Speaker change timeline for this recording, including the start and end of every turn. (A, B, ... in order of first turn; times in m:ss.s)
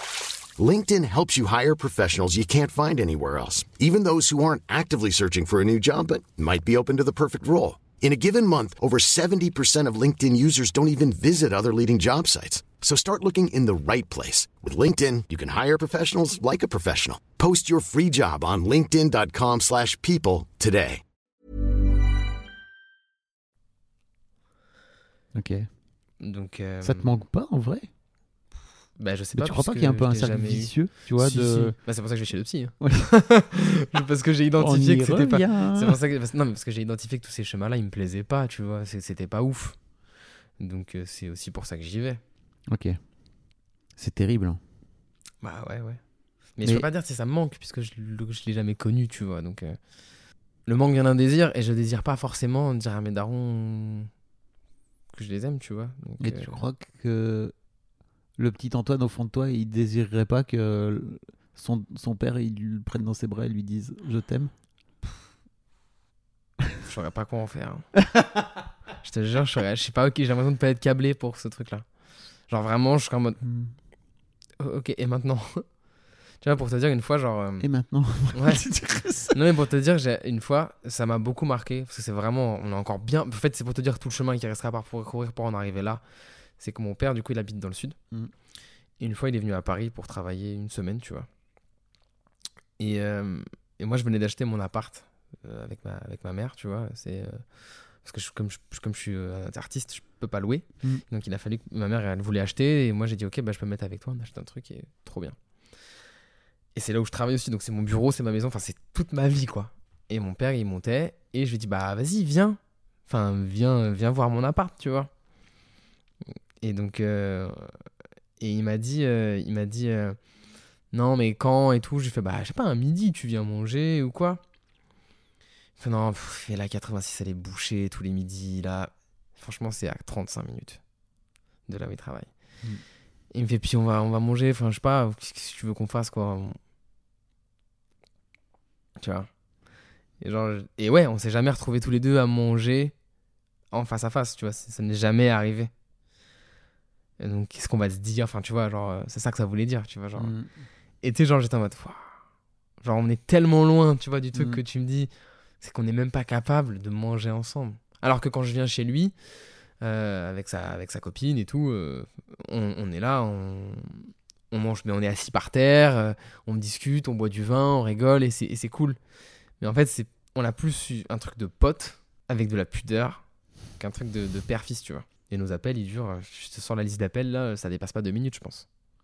0:00.6-0:21.0 A
0:25.4-0:25.7 B
0:26.2-0:27.2 C
0:26.8-0:27.9 B
0:29.0-0:39.9 C
0:29.4-0:31.8 B
0:32.8-0:33.1 B
0:34.6-0:36.0 B
0:40.6-0:42.2 C
0:42.7-0:43.0 B
0:44.0-0:44.6 B
0:45.4-0:46.0 C
0:46.6-0:49.8 C
0:50.7-0:54.1 C
0:55.1-0:56.6 C
0:56.2-0:57.5 B
0:58.4-1:04.5 B
1:06.8-1:07.9 C
1:09.0-1:11.9 C
1:12.4-1:13.4 C
1:13.4-1:13.7 B
1:14.6-1:15.6 C
1:16.4-1:17.7 C
1:17.6-1:19.4 B
1:18.3-1:18.7 C
1:19.3-1:26.0 C
1:26.6-1:28.0 C
1:29.0-1:31.3 C
1:32.8-1:45.4 C
1:46.8-1:55.1 C
1:56.6-1:57.7 C
1:58.4-2:00.2 C
2:00.9-2:04.4 C
2:05.8-2:10.8 C
2:11.7-2:12.3 C
2:13.3-2:16.6 C
2:19.0-2:19.3 C
2:20.2-2:22.9 C
2:23.7-2:25.7 C
2:27.2-2:30.3 C
2:30.2-2:30.5 B
2:31.0-2:32.2 C
2:32.8-2:39.2 C
2:34.3-2:34.6 B
2:39.8-2:49.0 C
2:49.6-2:53.2 C
2:53.8-2:58.7 C